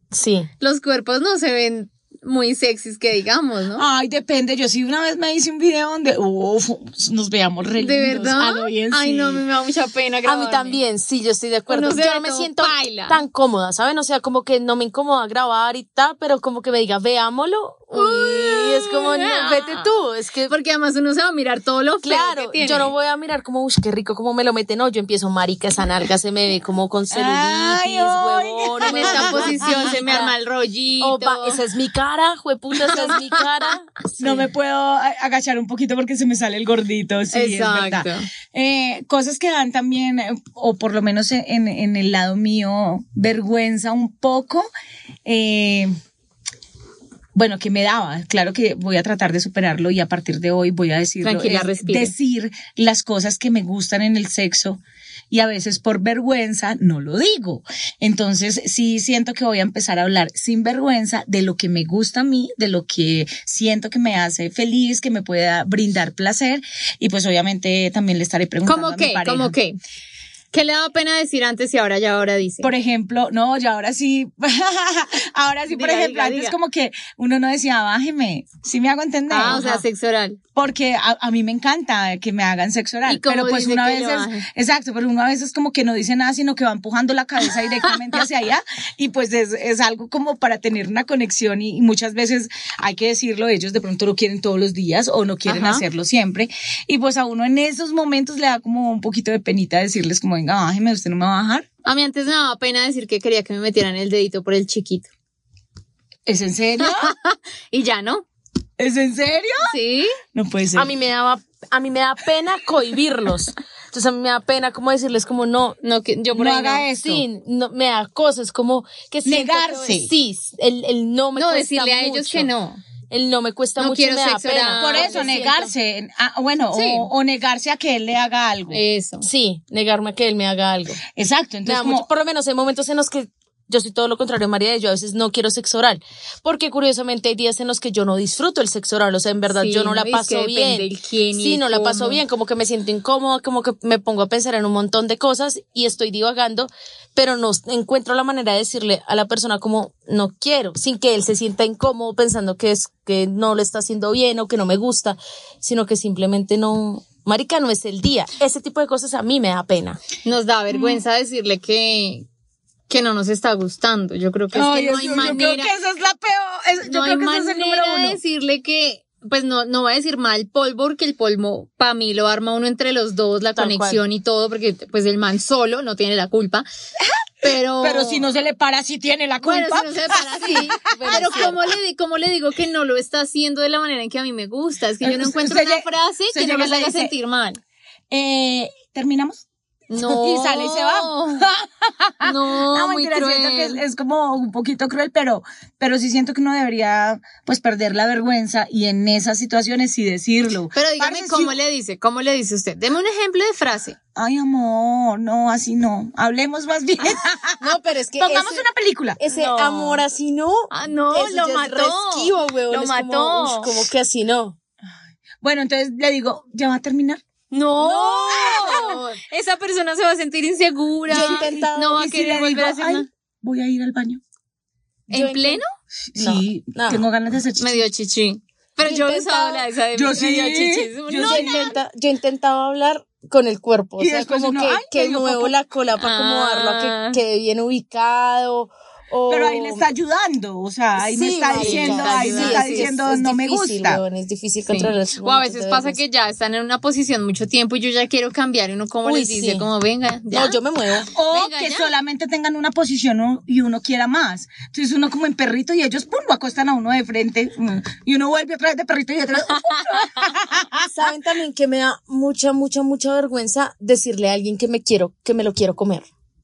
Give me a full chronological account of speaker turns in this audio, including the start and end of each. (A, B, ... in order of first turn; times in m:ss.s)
0:00.1-0:00.5 A
0:00.6-0:03.8 B
0:03.8-0:09.4 C
0:07.8-0:10.8 B
0:10.2-0:20.5 A
0:11.7-0:13.2 B
0:17.9-0:19.8 B
0:20.5-0:22.9 B
0:22.0-0:30.3 A
0:27.1-0:30.0 C
0:28.8-0:31.6 B
0:31.0-0:34.4 A
0:32.9-0:33.4 B
0:34.2-0:44.7 C
0:37.3-0:38.3 B
0:45.2-0:45.9 C
0:47.3-1:09.5 C
0:51.2-0:52.1 B
1:08.6-1:09.8 B
1:10.5-1:12.7 B
1:12.6-1:19.8 C
1:15.7-1:16.6 B
1:19.3-1:20.4 B
1:19.5-1:19.8 A
1:20.5-1:41.7 C
1:23.1-1:24.4 B
1:27.5-1:28.2 B
1:35.4-1:35.8 B
1:41.8-1:45.1 B
1:46.2-1:47.1 C
1:46.8-1:48.2 B
1:48.8-1:49.7 C
1:49.6-1:50.1 B
1:50.3-1:50.9 C
1:50.7-1:55.8 A
1:55.8-1:56.8 B
1:56.3-1:57.2 C
1:57.0-2:02.5 A
1:59.2-2:00.1 C
2:01.4-2:02.8 B
2:03.1-2:05.7 A
2:03.8-2:05.4 B
2:04.8-2:08.8 C
2:06.7-2:07.1 B
2:08.7-2:09.2 B
2:09.2-2:11.0 A
2:11.1-2:12.1 C
2:11.6-2:40.0 A
2:19.5-2:22.2 B
2:40.2-2:42.2 B
2:40.7-2:41.0 C
2:42.9-2:45.7 B
2:44.5-2:48.2 C
2:46.8-2:56.6 B
2:53.5-2:54.0 A
2:57.4-2:58.3 B
2:57.4-3:01.6 C
2:59.4-3:07.6 B
3:00.8-3:01.6 A
3:05.0-3:07.1 C
3:08.1-3:09.4 C
3:09.9-3:11.5 B
3:10.0-3:21.6 C
3:12.2-3:13.8 B
3:20.7-3:24.0 B
3:24.2-3:29.2 C
3:27.6-3:28.6 A
3:29.2-3:34.6 A
3:29.3-3:30.0 B
3:30.7-3:33.7 B
3:35.4-3:37.2 C
3:37.5-3:43.0 B
3:37.7-3:39.2 A
3:38.3-3:38.9 C
3:41.1-3:42.0 A
3:41.1-3:44.2 C
3:45.1-3:45.6 A
3:45.1-3:45.6 B
3:46.1-3:47.8 C
3:46.2-3:47.0 A
3:47.6-3:51.7 B
3:48.8-3:49.6 A
3:49.9-3:51.8 C
3:51.2-3:59.8 A
3:54.0-3:55.5 C
3:56.0-3:57.2 B
3:59.3-4:04.0 C
4:01.0-4:06.0 A
4:01.5-4:02.9 B
4:04.7-4:10.6 B
4:09.0-4:09.7 A
4:10.3-4:11.1 A
4:11.1-4:11.9 B
4:11.1-4:20.9 C
4:19.5-4:20.2 B
4:20.8-4:26.1 A